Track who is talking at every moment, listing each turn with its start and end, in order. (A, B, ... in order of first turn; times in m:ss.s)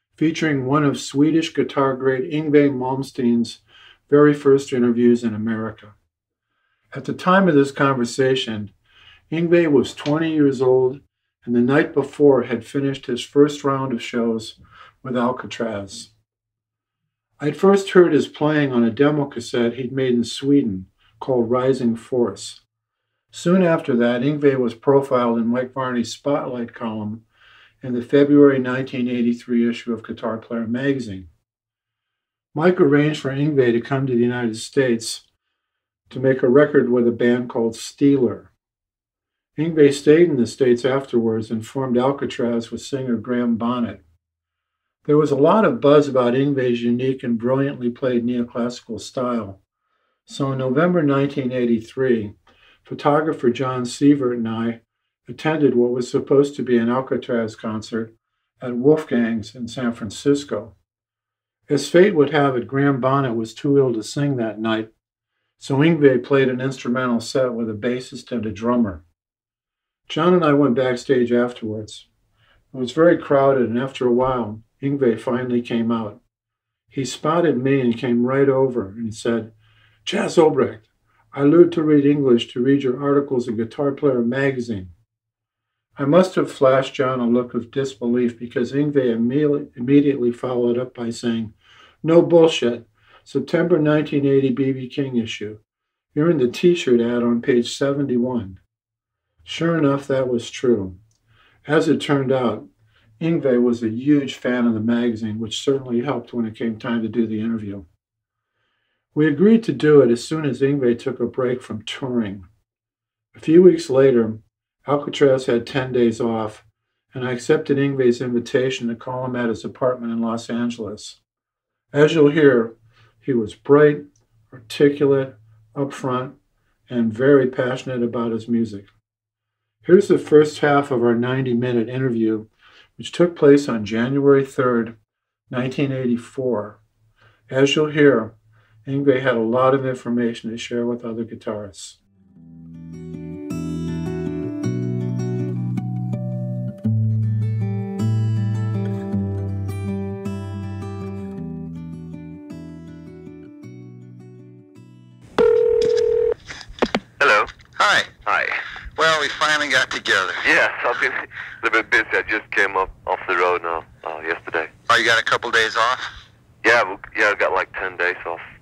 0:00.2-0:05.9 A
0:06.9-0:08.7 A
0:09.3-0:16.1 A
0:17.4-0:22.6 A
0:23.3-0:27.2 A
0:27.8-0:31.3 A
0:32.5-0:35.2 A
0:36.1-0:38.5 A
0:39.6-0:44.0 A
0:45.0-0:49.6 A
0:50.3-1:00.7 A
1:01.7-1:04.9 A
1:05.6-1:09.0 A
1:10.1-1:12.0 A
1:12.7-1:16.2 A
1:16.9-1:19.5 A
1:20.0-1:24.9 A
1:26.0-1:35.6 A
1:36.1-1:38.6 A
1:39.4-1:41.0 A
1:41.6-1:42.7 A
1:43.2-1:47.8 A
1:49.1-1:52.5 A
1:53.3-2:01.2 A
2:01.9-2:06.3 A
2:06.9-2:08.9 A
2:09.8-2:15.0 A
2:15.5-2:16.8 A
2:17.5-2:18.3 A
2:18.8-2:22.0 A
2:37.2-2:37.5 B
2:37.8-2:38.1 C
2:38.2-2:38.6 B
2:39.0-2:40.4 C
2:40.4-2:44.7 B
2:44.9-2:46.1 C
2:46.6-2:48.4 B